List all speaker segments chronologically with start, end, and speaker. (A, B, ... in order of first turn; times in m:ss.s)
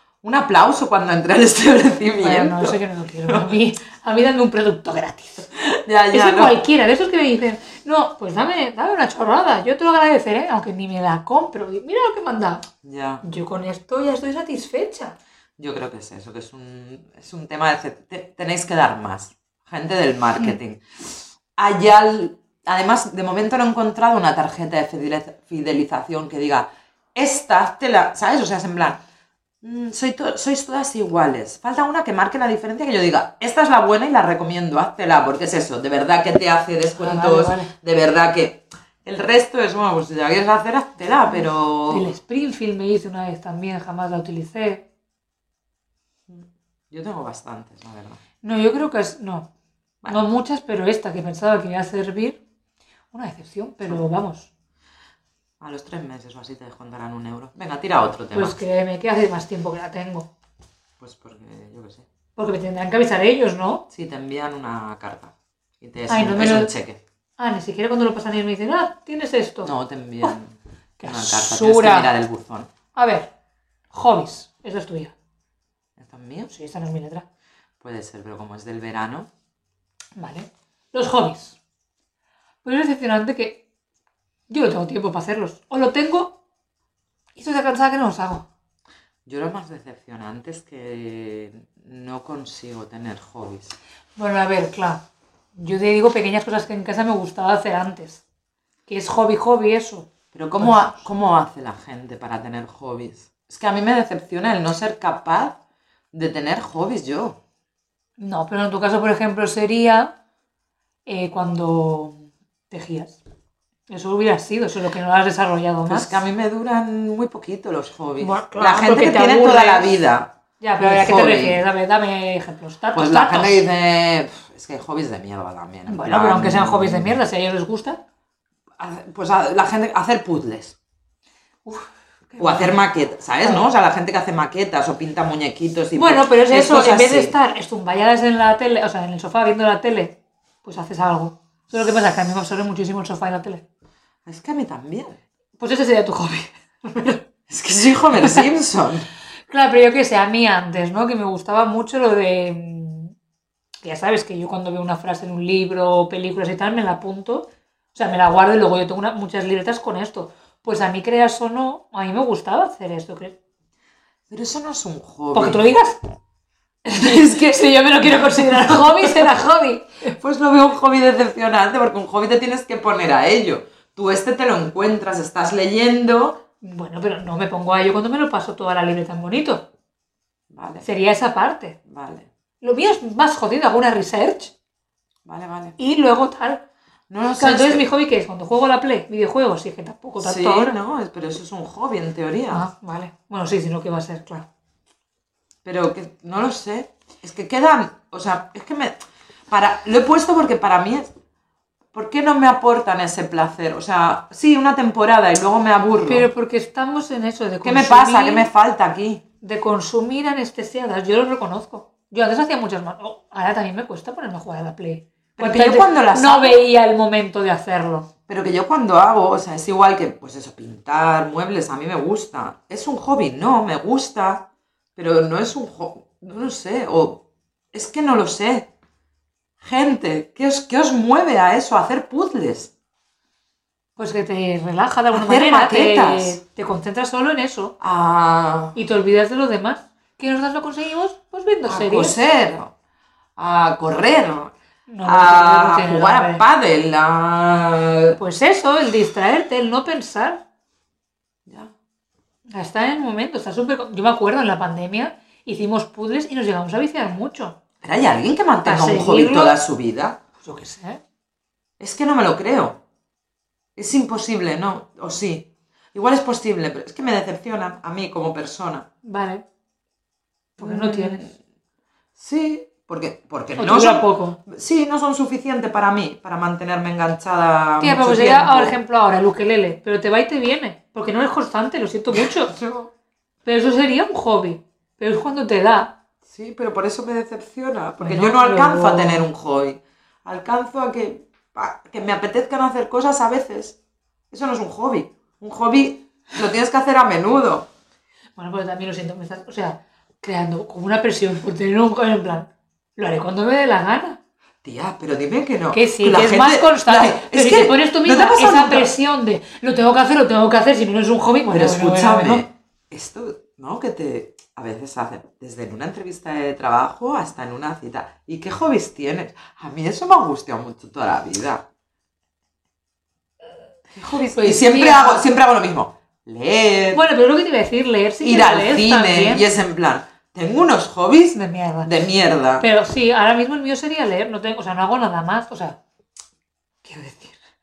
0:00.2-0:03.5 A
0:02.2-0:12.6 B
0:05.8-0:06.6 A
0:12.8-0:13.2 A
0:13.2-0:15.2 B
0:15.6-0:29.0 A
0:29.6-0:42.1 A
0:37.0-0:37.7 B
0:41.3-0:44.9 B
0:46.3-0:48.2 A
0:48.4-0:49.5 B
0:50.0-0:52.4 B
0:53.1-0:54.5 B
0:55.6-0:58.6 A
0:58.3-1:00.3 B
1:01.0-1:02.1 A
1:02.4-1:03.8 B
1:03.9-1:07.0 A
1:06.1-1:06.7 B
1:07.4-1:09.7 B
1:09.6-1:12.7 A
1:11.0-1:12.1 B
1:12.9-1:13.3 B
1:13.9-1:15.1 B
1:16.0-1:16.5 A
1:16.5-1:17.2 B
1:17.8-1:19.3 A
1:20.2-1:21.6 B
1:22.6-1:23.6 B
1:24.5-1:26.4 B
1:27.4-1:28.5 B
1:29.2-1:33.7 A
1:34.2-1:35.0 B
1:35.6-1:38.2 B
1:38.9-1:41.0 B
1:40.3-1:45.6 A
1:46.1-1:47.4 A
1:48.2-1:50.1 B
1:51.0-1:53.2 B
1:53.9-1:56.2 B
1:55.8-2:01.6 A
1:58.2-2:00.0 B
2:00.6-2:03.6 B
2:02.9-2:07.2 A
2:05.9-2:08.0 B
2:08.8-2:10.8 A
2:11.6-2:12.8 B
2:12.4-2:17.4 A
2:15.9-2:23.6 B
2:24.2-2:25.2 A
2:25.6-2:27.2 B
2:27.5-2:29.0 A
2:28.2-2:28.5 B
2:29.5-2:33.1 B
2:33.8-2:43.4 B
2:44.3-2:45.7 A
2:45.3-2:46.0 B
2:46.8-2:50.1 B
2:47.0-2:47.4 A
2:50.1-2:56.4 A
2:56.6-2:59.6 B
3:00.5-3:00.9 A
3:00.8-3:01.8 B
3:01.8-3:02.3 A
3:02.6-3:04.5 B
3:05.2-3:05.8 A
3:05.8-3:06.6 B
3:07.1-3:07.8 A
3:07.4-3:10.7 B
3:10.2-3:12.7 A
3:12.5-3:14.4 B
3:15.6-3:18.9 A
3:19.5-3:21.1 A
3:21.9-3:26.3 A
3:26.0-3:28.5 B
3:27.6-3:29.2 A
3:29.4-3:38.1 B
3:35.4-3:36.6 A
3:38.3-3:48.7 A
3:49.6-3:52.7 A
3:54.0-3:57.8 B
3:55.1-3:56.4 A
3:57.8-3:58.8 A
3:58.7-4:02.2 B
4:01.6-4:02.7 A
4:03.4-4:04.5 A
4:04.9-4:06.4 B
4:05.0-4:08.2 A
4:08.2-4:10.4 B
4:11.4-4:11.7 A
4:12.5-4:17.6 B
4:17.8-4:20.2 A
4:18.6-4:19.6 B
4:20.4-4:21.0 B
4:21.8-4:22.8 A
4:23.8-4:28.9 A
4:29.0-4:29.4 B
4:30.6-4:31.3 A
4:30.6-4:31.3 B
4:32.2-4:38.8 A
4:33.6-4:34.4 B
4:37.8-4:42.6 B
4:42.1-4:42.9 A
4:43.4-4:46.0 B
4:46.2-4:53.8 A
4:48.0-4:49.2 B
4:54.3-4:57.7 A
4:58.4-5:04.2 B
5:04.6-5:08.9 A
5:05.7-5:12.4 B
5:11.5-5:21.6 A
5:23.9-5:27.0 A
5:24.2-5:25.2 B
5:26.9-5:29.4 B
5:28.2-5:32.6 A
5:31.3-5:31.9 B
5:32.6-5:35.8 B
5:36.8-5:37.4 B